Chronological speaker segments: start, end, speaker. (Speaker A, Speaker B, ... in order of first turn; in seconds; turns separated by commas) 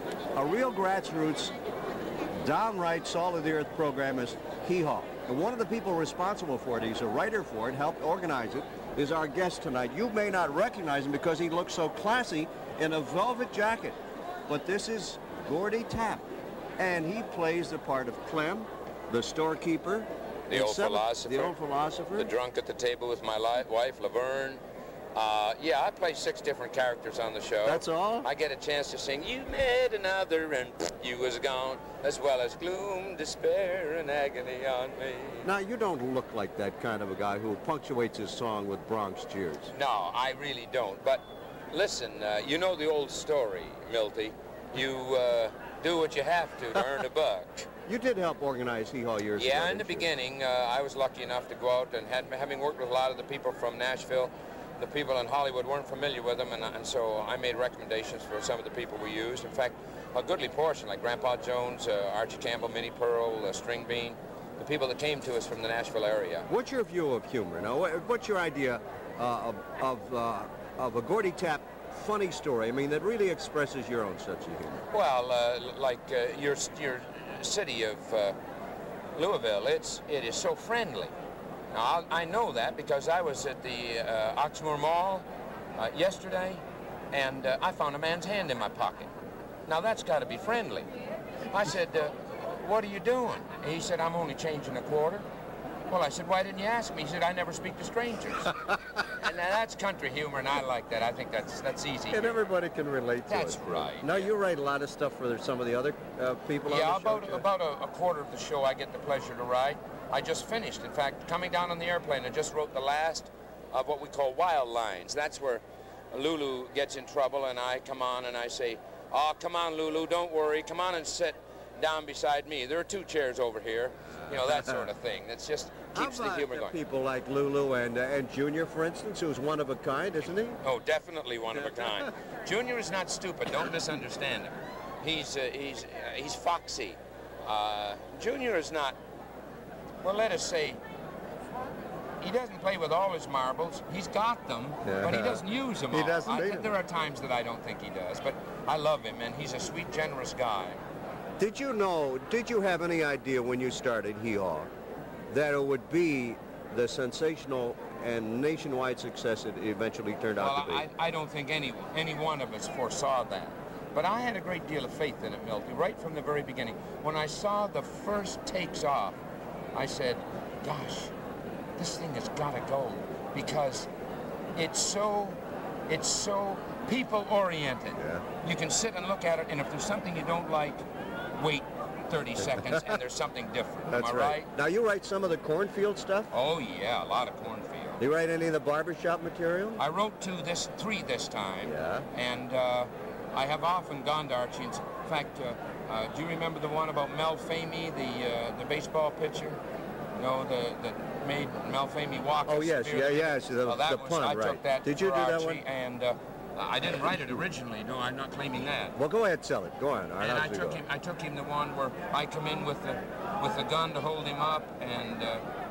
Speaker A: 0.3-1.5, Speaker A: 2.4-14.0, Speaker A: 14.5-16.2, Speaker A: 16.8-22.3, Speaker B: 20.5-21.6, Speaker B: 22.1-24.6, Speaker B: 25.1-35.5, Speaker A: 27.6-28.3, Speaker A: 35.4-39.7, Speaker B: 39.7-47.7, Speaker A: 47.9-50.1, Speaker B: 49.4-66.5, Speaker A: 66.5-74.8, Speaker B: 74.9-78.4, Speaker B: 79.2-81.1, Speaker B: 81.7-85.2, Speaker B: 85.8-89.1, Speaker B: 89.7-90.9, Speaker B: 91.5-95.2, Speaker B: 95.9-98.6, Speaker B: 99.1-102.4, Speaker A: 102.1-107.4, Speaker B: 103.3-104.3, Speaker B: 106.7-126.8, Speaker A: 124.3-124.8, Speaker A: 126.0-130.6, Speaker B: 130.6-139.0, Speaker B: 140.0-140.8, Speaker B: 142.2-150.8, Speaker A: 144.8-146.7, Speaker A: 151.4-154.7, Speaker A: 155.3-160.9, Speaker B: 160.4-169.2, Speaker B: 169.7-171.1, Speaker B: 171.8-173.9, Speaker B: 174.6-180.8, Speaker A: 178.0-178.2, Speaker B: 181.4-184.5, Speaker A: 182.6-182.9, Speaker A: 183.9-186.3, Speaker B: 186.3-188.0, Speaker A: 188.0-189.8, Speaker B: 189.8-199.6, Speaker A: 191.7-192.1, Speaker B: 200.2-208.9, Speaker A: 202.5-205.6, Speaker A: 209.0-210.8, Speaker B: 210.2-215.5